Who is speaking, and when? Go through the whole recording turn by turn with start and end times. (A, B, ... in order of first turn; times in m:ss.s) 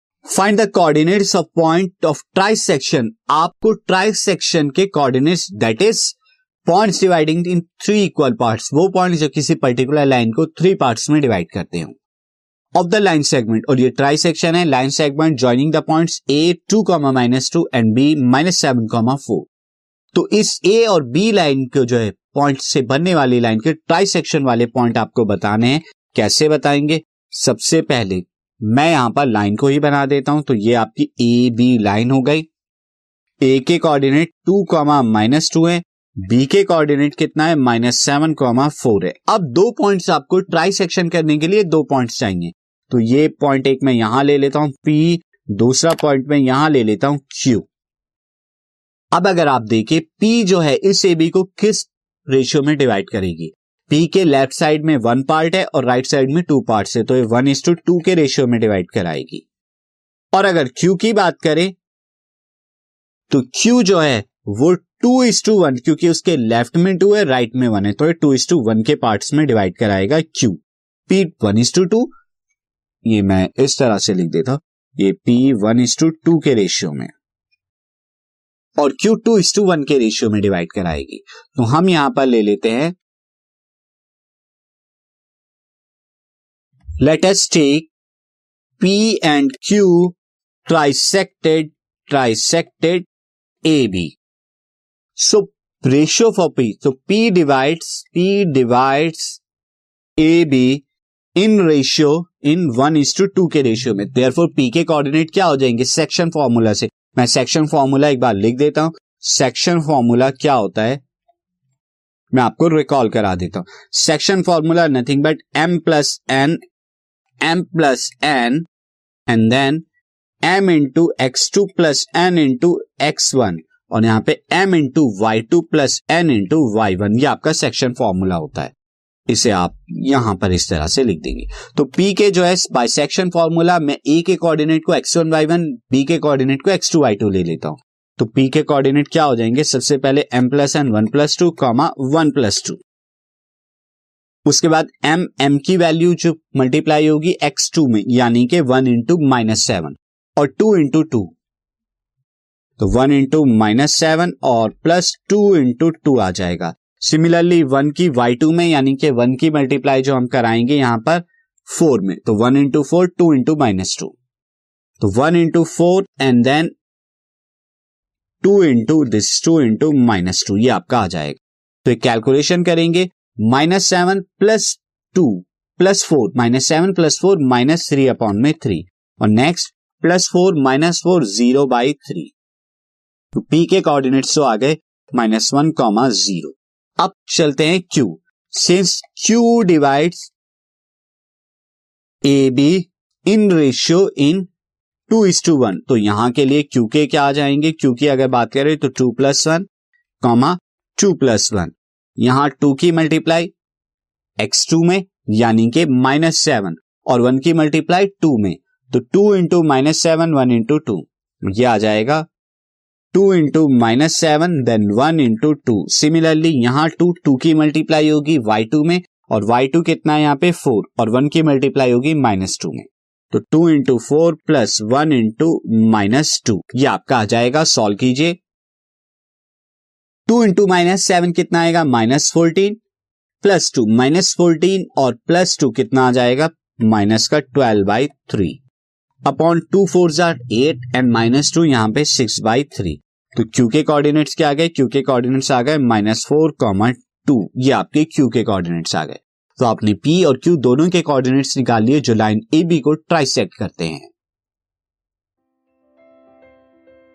0:00.3-0:12.0 A
0:12.8-0:19.5 A
0:20.1-0:32.5 A
0:33.4-0:47.7 A
0:49.1-0:59.4 A
1:00.3-1:01.8 A
1:03.3-1:12.1 A
1:13.0-1:17.1 A
1:18.8-1:23.0 A
1:27.0-1:27.9 A
1:28.8-1:33.1 A
1:33.6-1:34.2 A
1:35.2-1:39.4 A
1:40.2-1:40.8 A
1:41.4-1:51.0 A
1:52.3-1:56.6 A
1:57.4-1:58.7 A
1:59.3-1:59.8 A
2:00.4-2:08.7 A
2:09.3-2:22.8 A
2:24.5-2:31.3 A
2:32.8-2:44.1 A
2:45.0-2:46.7 A
2:48.4-3:02.3 A
3:03.4-3:10.3 A
3:12.2-3:14.5 A
3:15.1-3:19.7 A
3:20.2-3:23.5 A
3:24.4-3:32.2 A
3:33.1-3:48.4 A
3:50.3-3:52.8 A
3:53.4-3:58.6 A
3:59.2-4:14.1 A